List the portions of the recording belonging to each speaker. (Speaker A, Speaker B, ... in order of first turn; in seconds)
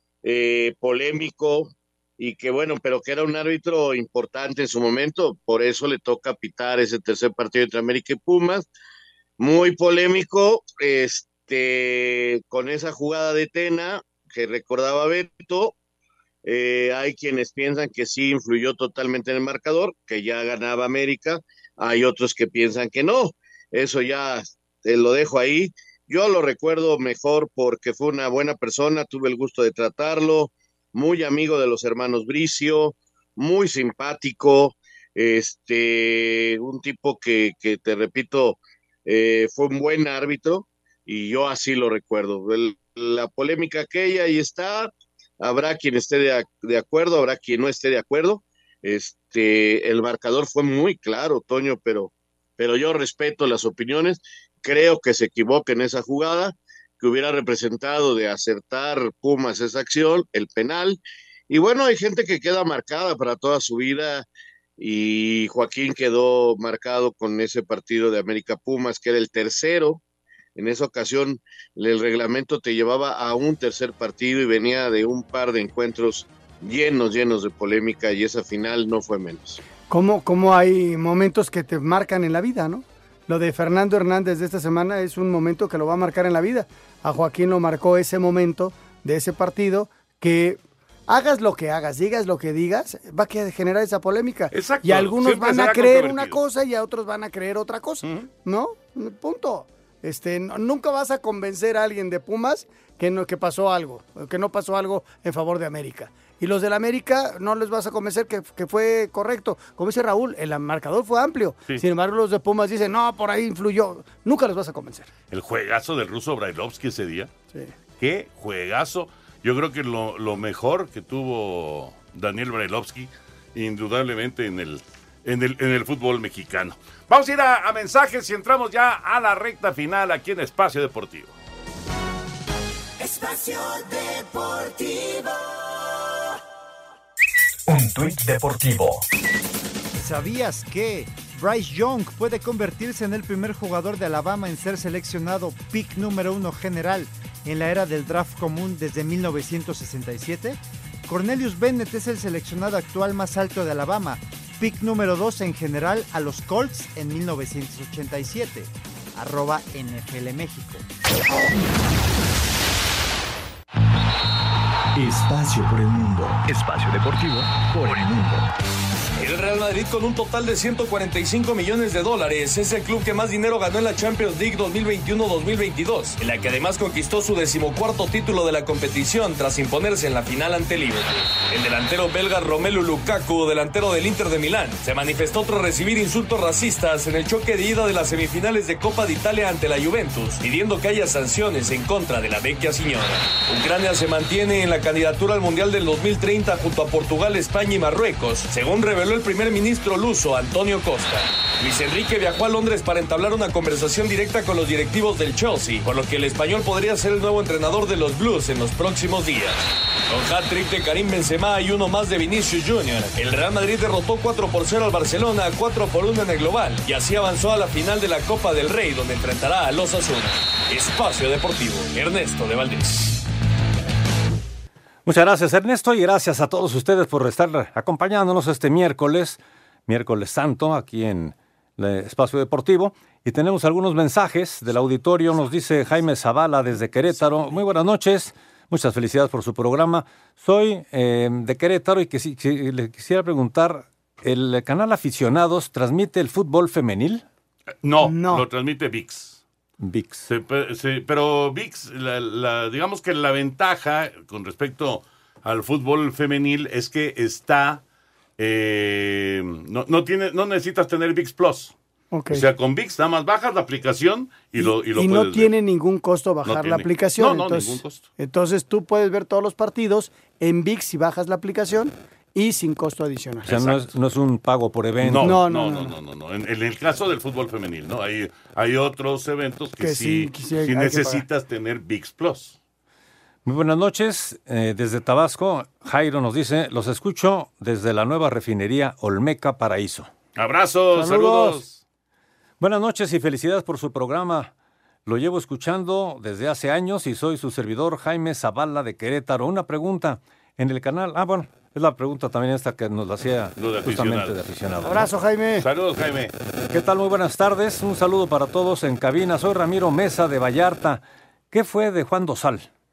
Speaker A: 0.2-8.7, 9.4-15.7, 16.4-64.3, 64.8-70.0, 70.6-79.6
Speaker B: 79.9-115.1, 248.0-248.5, 262.1-262.5, 264.6-273.5, 275.2-276.0, 279.8-281.2, 290.9-291.6, 304.9-305.7
Speaker C: 94.5-96.4, 115.3-117.3, 118.0-131.3, 247.8-249.4, 250.3-257.8, 258.4-261.7, 262.3-265.5, 266.4-268.1, 273.5-273.9, 275.0-282.6, 290.4-291.8, 303.6-304.5, 305.6-306.3
Speaker D: 137.7-139.0, 165.0-168.4
Speaker E: 139.9-160.8
Speaker F: 169.2-223.2
Speaker G: 225.1-247.2, 249.8-250.3, 273.5-275.4, 283.4-290.1, 292.6-294.5, 295.1-305.1, 306.7-312.7